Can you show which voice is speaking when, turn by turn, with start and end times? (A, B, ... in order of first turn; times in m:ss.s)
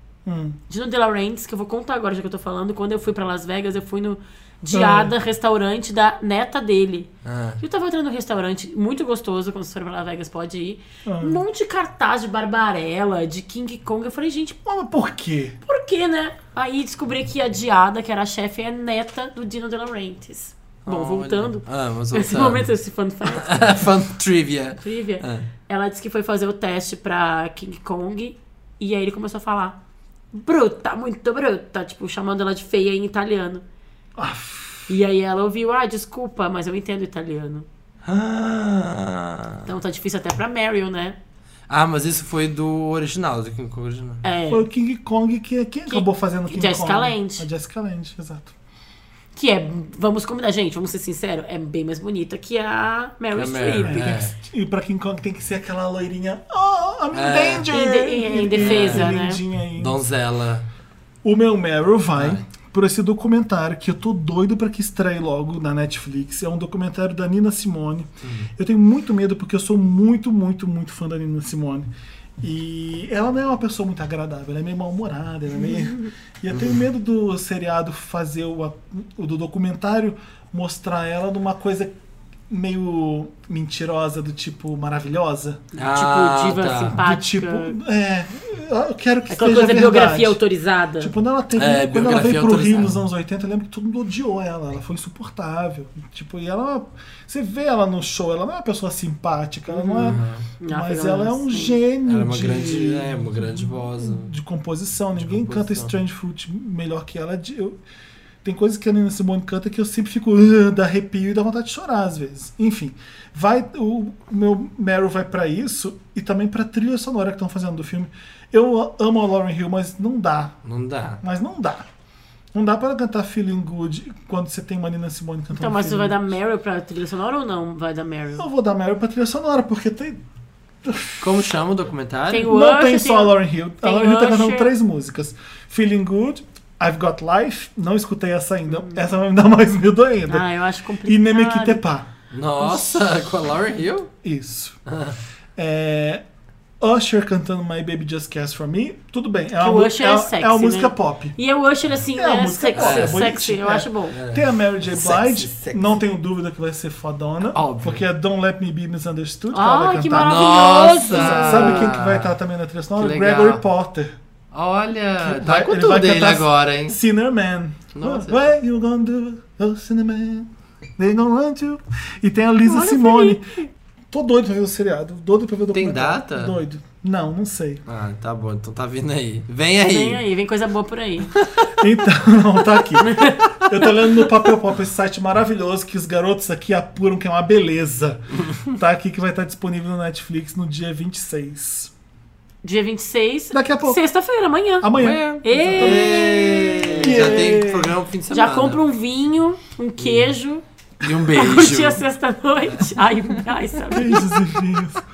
0:00.2-0:00.6 A
0:00.7-0:14.6 B
0:04.7-0:05.1 A
0:07.2-0:07.6 C
0:11.0-0:11.4 A
0:14.6-0:15.6 A
0:15.6-0:23.5 B
0:20.8-0:22.7 C
0:23.3-0:25.5 C
0:24.8-0:29.8 B
0:30.3-0:33.6 B
0:34.2-0:34.9 A
0:34.9-0:37.7 B
0:38.0-0:39.6 C
0:39.6-0:41.2 B
0:41.7-0:44.2 C
0:44.2-0:44.6 B
0:44.5-0:48.5 A
0:45.9-0:47.4 B
0:49.4-0:54.2 B
0:53.3-0:54.3 C
0:53.8-1:00.0 A
0:57.1-0:57.7 C
0:57.7-0:59.4 B
0:58.6-0:59.1 C
0:59.7-1:00.6 C
1:01.2-1:21.9 A
1:02.2-1:02.4 C
1:08.2-1:08.5 C
1:16.5-1:16.8 C
1:22.5-1:25.6 A
1:25.7-1:27.8 B
1:25.8-1:27.0 C
1:26.9-1:30.4 A
1:29.3-1:31.1 B
1:31.0-1:47.8 A
1:31.6-1:33.0 C
1:39.7-1:41.8 B
1:40.0-1:40.4 C
1:42.0-1:44.3 C
1:45.2-1:45.9 C
1:48.4-2:00.6 A
2:00.6-2:01.2 C
2:01.2-2:01.9 A
2:02.5-2:06.2 A
2:05.5-2:08.4 B
2:08.4-2:10.2 A
2:10.8-2:11.5 A
2:11.2-2:12.5 C
2:12.3-2:14.7 B
2:12.4-2:20.5 A
2:20.3-2:21.8 B
2:21.0-2:22.1 A
2:22.3-2:24.1 C
2:22.6-2:23.0 A
2:24.2-2:24.8 A
2:24.8-2:25.2 C
2:25.6-2:26.2 A
2:26.8-2:31.4 A
2:29.6-2:34.2 B
2:32.1-2:44.2 A
2:32.7-2:33.2 C
2:34.1-2:36.0 C
2:37.5-2:38.0 C
2:39.5-2:41.9 B
2:40.2-2:42.3 C
2:43.0-2:43.6 C
2:44.5-2:47.0 C
2:45.2-2:53.5 A
2:47.9-2:48.5 C
2:52.7-2:53.7 B
2:54.1-2:57.8 A
2:55.7-2:56.6 C
2:57.9-3:00.2 C
2:59.8-3:01.4 B
3:01.8-3:11.9 A
3:03.0-3:04.2 B
3:12.6-3:17.1 B
3:13.5-3:14.0 A
3:14.8-3:18.0 A
3:15.0-3:18.8 C
3:18.3-3:20.6 B
3:20.0-3:20.3 C
3:21.0-3:22.0 C
3:21.3-3:24.3 B
3:23.9-3:25.0 A